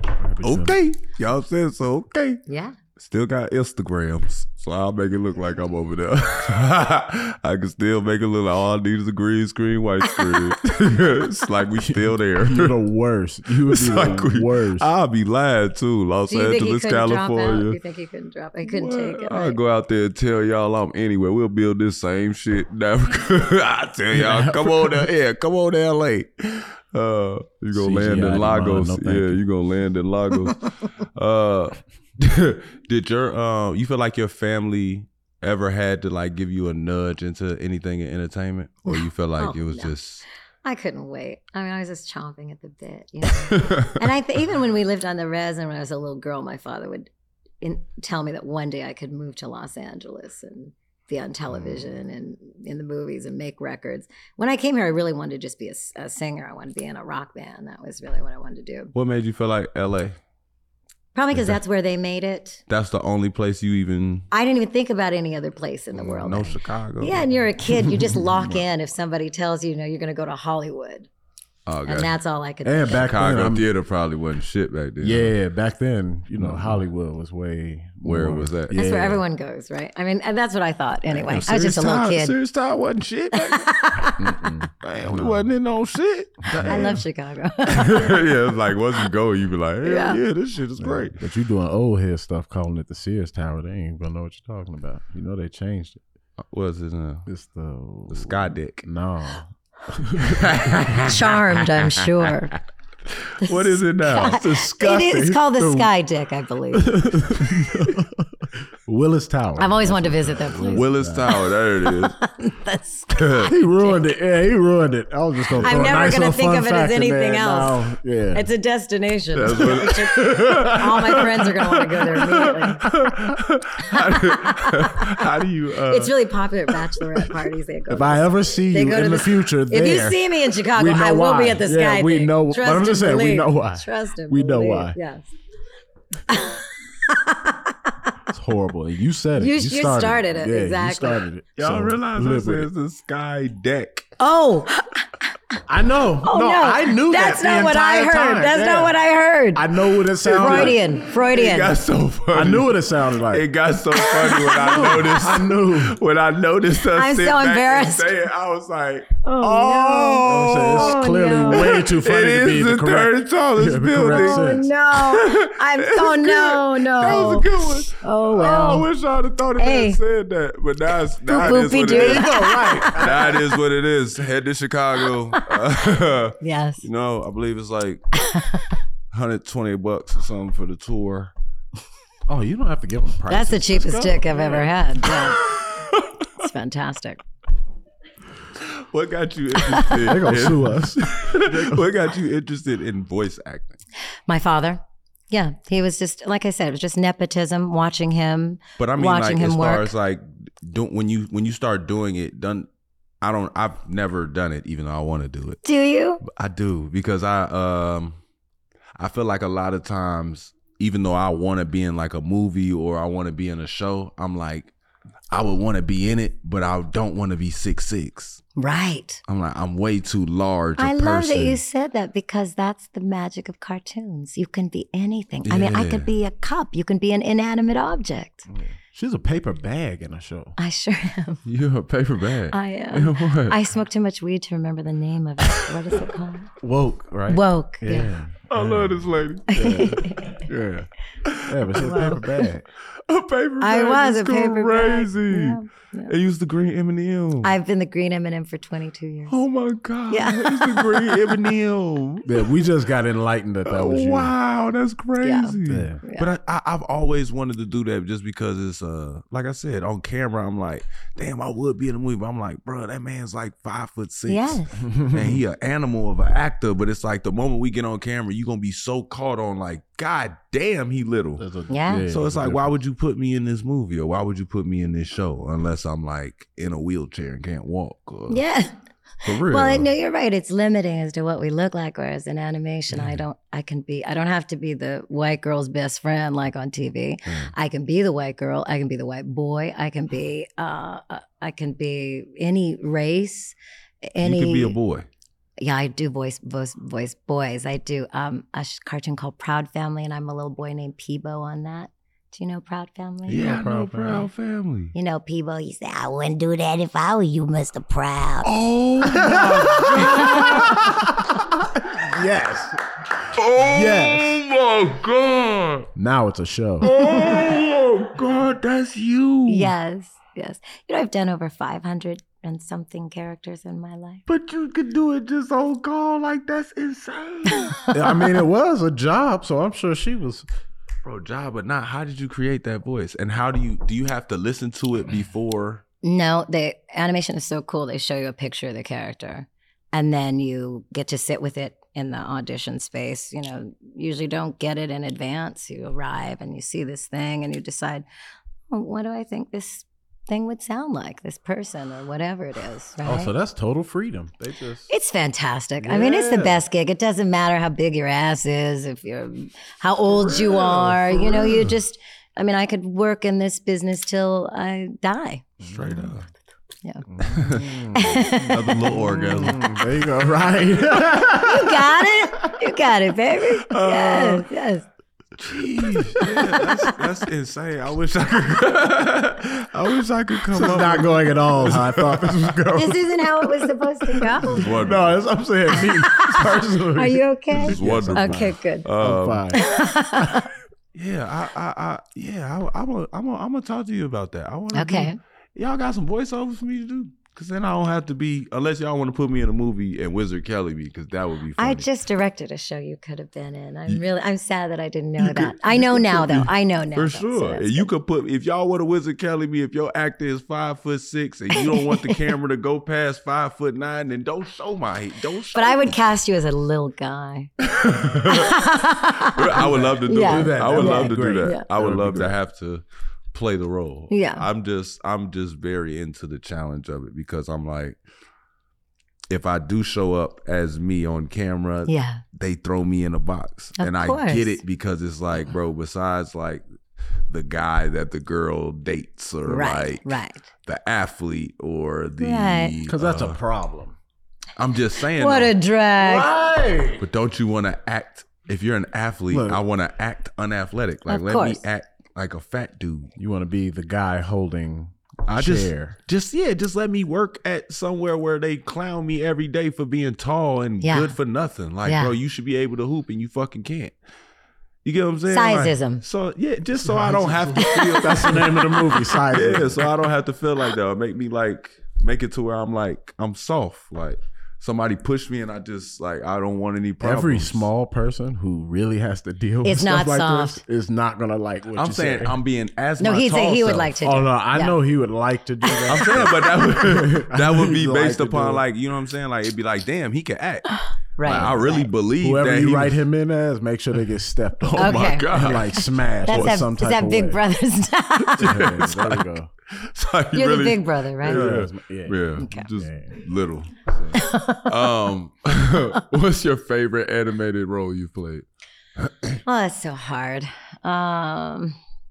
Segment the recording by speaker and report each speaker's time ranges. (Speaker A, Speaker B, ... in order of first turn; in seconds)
Speaker A: 0.2-0.8, 11.8-14.9, 24.1-25.1, 27.7-29.4, 72.7-73.7, 75.0-79.2, 84.2-85.5, 86.5-87.0, 90.8-96.0, 97.3-100.8, 105.2-105.9, 106.7-111.3, 113.5-118.5, 119.6-120.8, 127.9-135.0, 138.3-142.7, 145.7-149.0, 149.6-150.8, 152.3-153.5, 154.6-156.0, 160.2-164.7, 167.0-167.6, 168.3-168.8, 171.4-173.5, 182.3-184.7, 190.0-191.9, 228.5-230.6, 236.6-240.9, 241.4-242.7, 252.2-254.3, 255.7-256.0, 264.8-265.4, 271.4-272.8, 303.3-304.3, 309.0-312.8, 313.6-314.4, 315.9-316.9, 327.9-330.5, 353.0-354.9, 355.8-356.6, 365.6-366.1, 367.1-372.0, 380.5-389.6, 419.5-422.3, 442.9-444.0, 446.0-447.1, 449.3-449.6, 453.2-456.0, 466.8-469.9, 477.0-482.4, 484.0-488.6, 491.2-497.4, 498.4-499.5, 501.2-503.2
Speaker B: 0.4-2.4, 3.0-12.8, 13.7-17.8, 18.6-40.2, 43.5-44.0, 58.9-60.2, 62.7-64.3, 66.0-67.3, 71.7-72.1, 72.9-75.3, 76.4-76.8, 78.0-78.8, 81.2-83.7, 84.8-87.0, 87.7-91.2, 96.5-97.3, 98.1-98.8, 100.2-102.3, 103.1-105.4, 110.6-112.2, 113.1-113.5, 115.5-116.1, 119.3-126.1, 126.7-127.4, 141.6-144.1, 150.3-178.0, 179.1-181.3, 185.0-186.2, 188.6-193.8, 198.8-202.7, 203.2-205.6, 206.2-208.2, 209.0-214.7, 215.3-218.4, 219.3-221.6, 225.4-226.1, 231.4-233.6, 238.5-240.4, 241.3-242.2, 243.1-247.5, 249.3-252.4, 253.7-271.4, 272.1-278.4, 279.2-279.9, 287.3-287.5, 294.2-295.1, 303.3-304.9, 308.4-311.1, 313.3-315.9, 316.8-319.7, 324.3-327.8, 331.0-335.8, 360.1-361.6, 365.6-366.3, 367.3-369.8, 373.7-374.4, 375.4-382.6, 384.4-385.2, 387.6-389.5, 390.9-401.9, 405.2-415.9, 417.6-418.6, 419.3-428.0, 429.3-436.6, 437.3-443.4, 444.6-445.5, 447.0-453.1, 455.3-463.9, 464.8-477.7, 481.8-484.0, 485.9-493.0, 494.7-496.6, 498.2-508.4, 509.0-509.4
Speaker C: 2.5-2.8, 10.1-10.5, 16.3-19.6, 38.9-39.9, 40.6-47.1, 47.6-58.9, 61.1-62.6, 64.3-71.1, 71.9-73.1, 78.7-82.3, 83.3-84.4, 86.6-88.3, 89.8-90.2, 101.0-102.6, 103.4-107.2, 109.6-114.0, 115.6-123.0, 123.9-125.2, 125.9-135.3, 136.3-138.2, 139.4-141.2, 144.2-145.6, 146.2-151.8, 154.0-155.2, 156.9-158.2, 159.2-161.9, 164.1-168.9, 169.6-170.0, 171.3-173.3, 175.3-175.8, 176.4-176.8, 178.1-178.8, 183.3-185.5, 186.4-187.2, 189.6-190.1, 194.3-199.9, 205.6-206.2, 218.6-219.2, 220.8-228.5, 230.6-231.4, 232.5-236.5, 237.3-238.1, 239.5-240.4, 241.8-242.2, 243.6-246.1, 247.4-249.4, 250.1-251.4, 255.2-256.3, 264.3-264.8, 271.7-272.1, 278.3-294.8, 295.6-303.6, 304.9-308.5, 310.1-310.5, 319.5-324.2, 327.5-328.0, 336.0-348.1, 348.7-353.3, 354.9-365.4, 367.9-368.8, 371.4-374.9, 376.2-376.9, 382.8-384.9, 385.7-388.9, 389.5-390.5, 394.7-395.2, 401.6-407.9, 411.5-412.2, 415.5-417.5, 418.2-421.6, 424.1-424.5, 431.9-432.2, 433.8-434.6, 439.4-440.5, 442.2-442.8, 445.2-446.3, 451.1-451.6, 460.8-461.2, 461.9-462.1, 465.3-466.0, 467.6-468.9, 479.6-480.6, 483.0-484.8, 485.7-486.0, 491.2-491.9, 494.8-498.7, 500.3-501.5, 502.4-502.7, 504.1-504.9, 509.4-511.8